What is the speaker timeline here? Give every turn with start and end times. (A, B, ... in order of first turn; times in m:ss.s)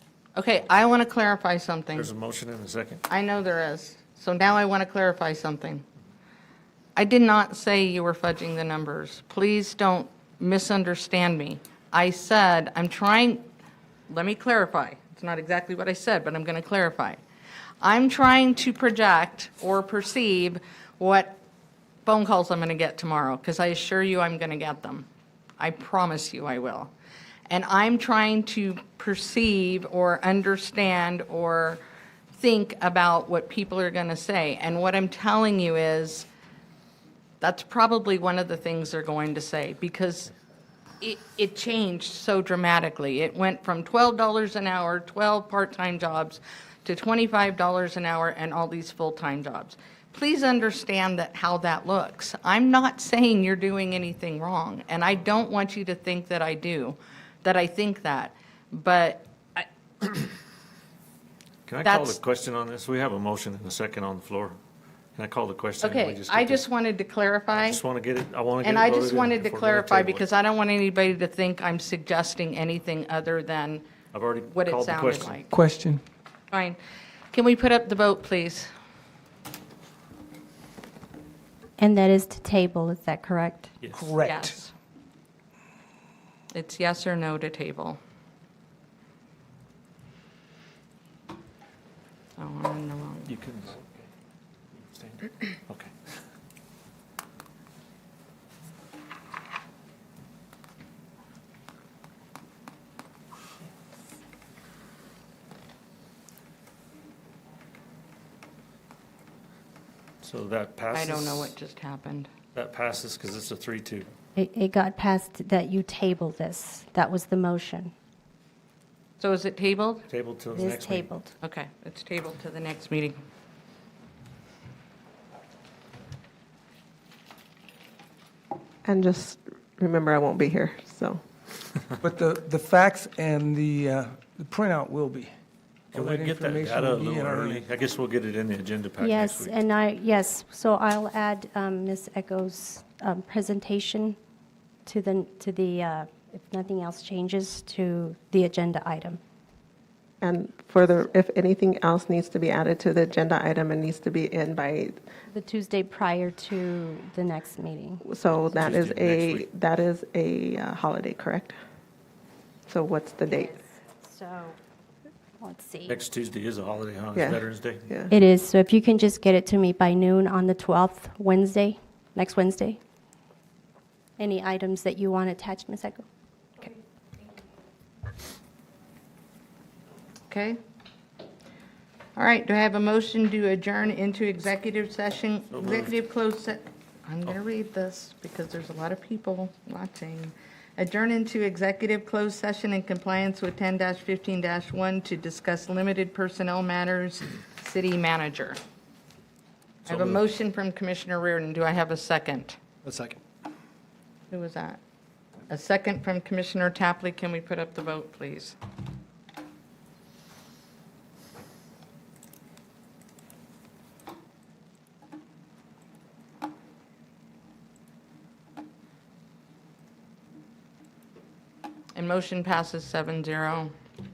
0:00.3-0:02.1 A
0:01.9-0:03.0 B
0:03.1-0:05.8 A
0:07.0-0:13.4 A
0:14.1-0:17.2 A
0:17.8-0:21.4 A
0:22.0-0:25.1 A
0:25.6-0:26.9 A
0:27.5-0:31.8 A
0:32.3-0:36.3 A
0:37.4-0:40.3 A
0:41.0-1:00.2 A
1:01.6-1:04.6 B
1:01.8-1:02.2 A
1:05.2-1:06.6 B
1:05.8-1:07.8 A
1:07.6-1:10.3 B
1:08.6-1:13.8 A
1:14.1-1:15.4 B
1:14.5-1:15.5 A
1:15.5-1:16.0 C
1:16.5-1:16.8 A
1:17.3-1:18.7 A
1:21.8-1:23.8 D
1:23.8-1:24.1 B
1:23.9-1:24.6 C
1:24.2-1:24.7 A
1:26.5-1:28.0 A
1:32.4-1:33.3 A
1:33.3-1:34.0 B
1:34.7-1:35.9 B
1:50.2-1:51.5 B
1:50.9-1:52.3 A
1:52.5-1:54.1 B
1:54.4-1:57.9 D
1:59.2-2:00.0 A
2:00.1-2:01.1 B
2:00.5-2:01.3 D
2:01.4-2:03.2 A
2:08.8-2:11.2 E
2:12.0-2:15.3 C
2:15.9-2:17.6 C
2:15.9-2:19.5 B
2:19.0-2:24.2 D
2:24.8-2:29.2 D
2:30.2-2:35.0 E
2:35.3-2:38.0 D
2:38.0-2:41.5 E
2:38.5-2:39.4 B
2:42.7-2:43.6 E
2:43.3-2:44.6 D
2:45.4-2:46.0 D
2:45.9-2:47.9 B
2:47.1-2:48.1 E
2:48.1-2:52.8 D
2:54.2-2:56.0 D
3:00.3-3:00.6 A
3:02.2-3:18.6 A
3:05.5-3:05.9 B
3:19.8-3:22.6 A
3:19.9-3:20.2 B
3:22.8-3:23.2 B
3:24.3-3:24.8 A
3:25.5-3:28.6 A
3:41.9-3:43.7 A